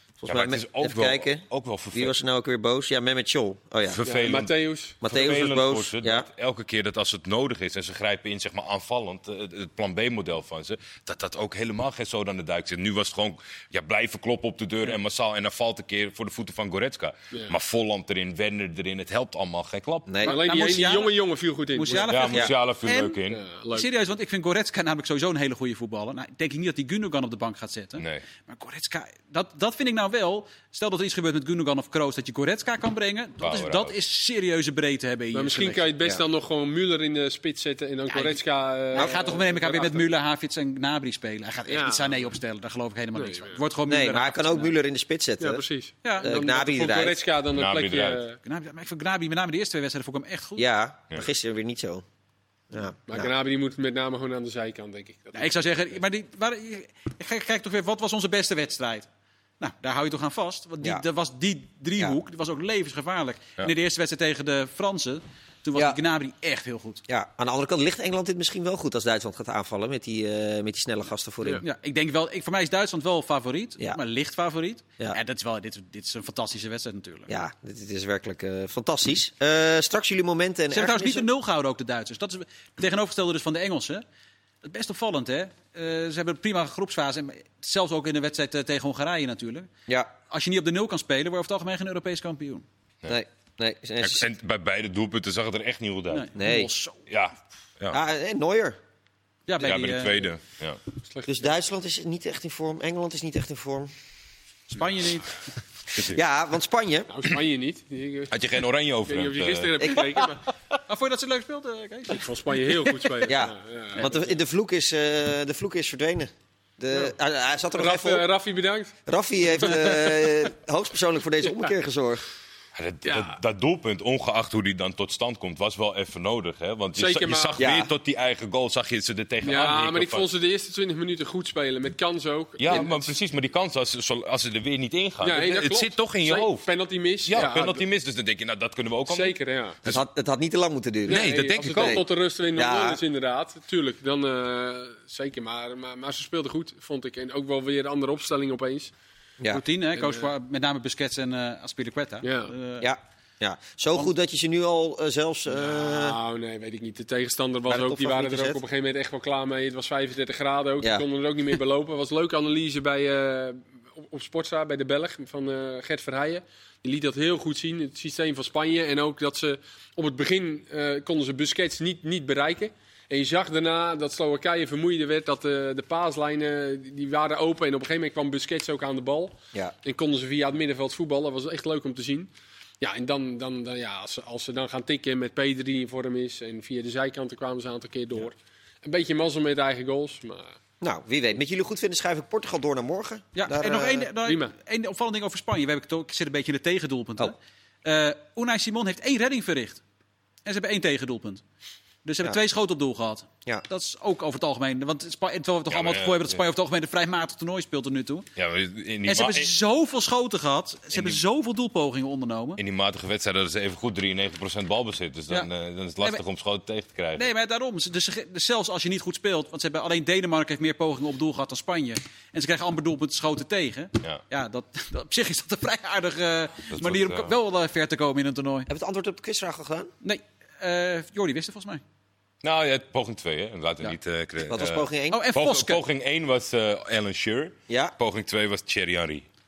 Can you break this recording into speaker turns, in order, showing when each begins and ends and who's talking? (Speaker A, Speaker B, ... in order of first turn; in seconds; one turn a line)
Speaker A: 0.2-4.0
Speaker B: 0.3-2.1
Speaker B: 3.9-20.1
Speaker C: 4.0-5.0
Speaker A: 5.0-6.3
Speaker A: 20.1-20.4
Speaker D: 20.2-21.1
Speaker C: 20.2-22.3
Speaker D: 21.8-23.2
Speaker B: 22.1-23.4
Speaker C: 23.3-23.9
Speaker D: 23.7-35.9
Speaker B: 28.0-28.2
Speaker B: 33.4-34.0
Speaker C: 35.3-40.1
Speaker D: 38.1-38.4
Speaker D: 38.9-44.7
Speaker A: 39.0-39.4
Speaker C: 41.7-42.3
Speaker C: 43.1-43.6
Speaker A: 43.9-45.6
Speaker C: 45.4-48.4
Speaker D: 46.0-46.3
Speaker A: 46.2-47.2
Speaker B: 47.5-48.2
Speaker D: 48.4-50.6
Speaker A: 50.6-52.0
Speaker A: 52.7-53.3
Speaker C: 53.1-56.0
Speaker D: 55.4-59.1
Speaker D: 59.6-67.0
Speaker A: 67.1-71.6
Speaker D: 71.6-77.3
Speaker A: 77.3-81.3
Speaker D: 80.7-84.0
Speaker D: 84.6-89.7
Speaker D: 90.3-92.7
Speaker A: 93.1-94.3
Speaker B: 94.0-96.3
Speaker D: 96.1-97.0
Speaker A: 96.4-96.7
Speaker B: 97.1-98.0
Speaker A: 97.9-98.8
Speaker D: 99.5-100.3
Speaker B: 99.6-100.8
Speaker C: 101.1-101.5
Speaker A: 101.3-103.9
Speaker D: 104.7-105.4
Speaker A: 105.9-107.1
Speaker C: 107.1-108.5
Speaker B: 108.3-110.1
Speaker C: 109.0-110.4
Speaker D: 110.9-113.2
Speaker C: 112.1-114.2
Speaker A: 113.3-118.2
Speaker D: 114.0-114.3
Speaker C: 117.7-118.9
Speaker A: 119.1-122.2
Speaker C: 119.5-120.1
Speaker B: 122.8-130.3
Speaker C: 123.1-123.4
Speaker C: 127.0-127.7
Speaker A: 127.6-127.9
Speaker C: 129.4-133.1
Speaker B: 132.6-136.7
Speaker C: 135.2-137.8
Speaker B: 137.3-140.1
Speaker C: 139.1-139.8
Speaker A: 139.9-141.2
Speaker B: 141.1-142.0
Speaker C: 141.1-148.9
Speaker A: 141.8-143.0
Speaker D: 149.5-152.9
Speaker C: 150.0-150.3
Speaker C: 152.2-152.5
Speaker A: 152.8-156.2
Speaker C: 155.5-182.3
Speaker A: 157.7-158.6
Speaker C: 182.8-190.6
Speaker A: 190.8-194.1
Speaker D: 193.3-199.8
Speaker C: 194.2-194.6
Speaker D: 200.4-201.4
Speaker D: 202.1-208.3
Speaker B: 205.7-206.4
Speaker B: 208.4-209.5
Speaker D: 209.0-212.6
Speaker B: 210.9-211.2
Speaker B: 212.6-217.3
Speaker D: 217.2-228.7
Speaker B: 226.7-227.3
Speaker A: 228.7-229.9
Speaker D: 230.0-231.8
Speaker B: 232.4-239.2
Speaker A: 234.4-235.2
Speaker D: 235.1-235.8
Speaker A: 237.7-237.9